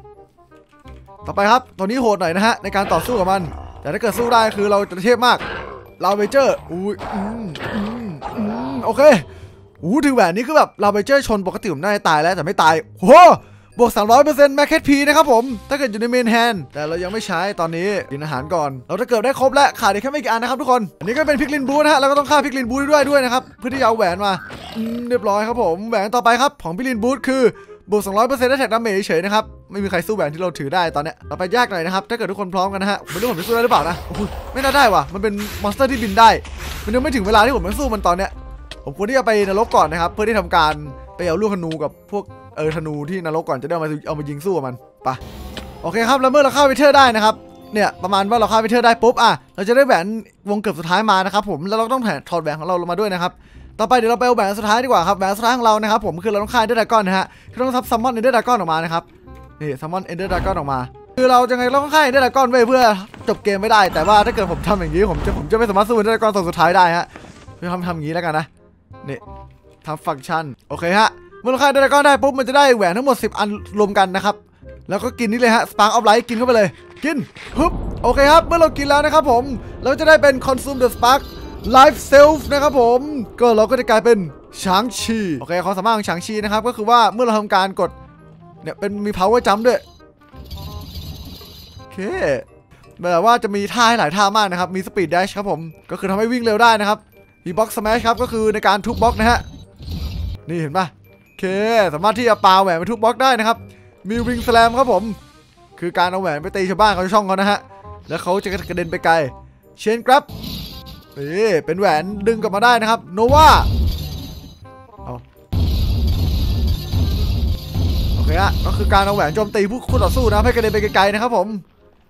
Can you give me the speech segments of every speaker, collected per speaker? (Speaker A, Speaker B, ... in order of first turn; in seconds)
Speaker A: 1.2-5.4, 6.0-9.2, 9.8-38.3, 38.8-45.2, 45.8-59.1, 59.6-67.1, 67.6-68.5, 69.8-87.9, 88.6-89.8, 91.9-92.4, 93.0-99.4, 100.5-105.2, 105.8-110.3, 111.1-113.7, 118.2-121.6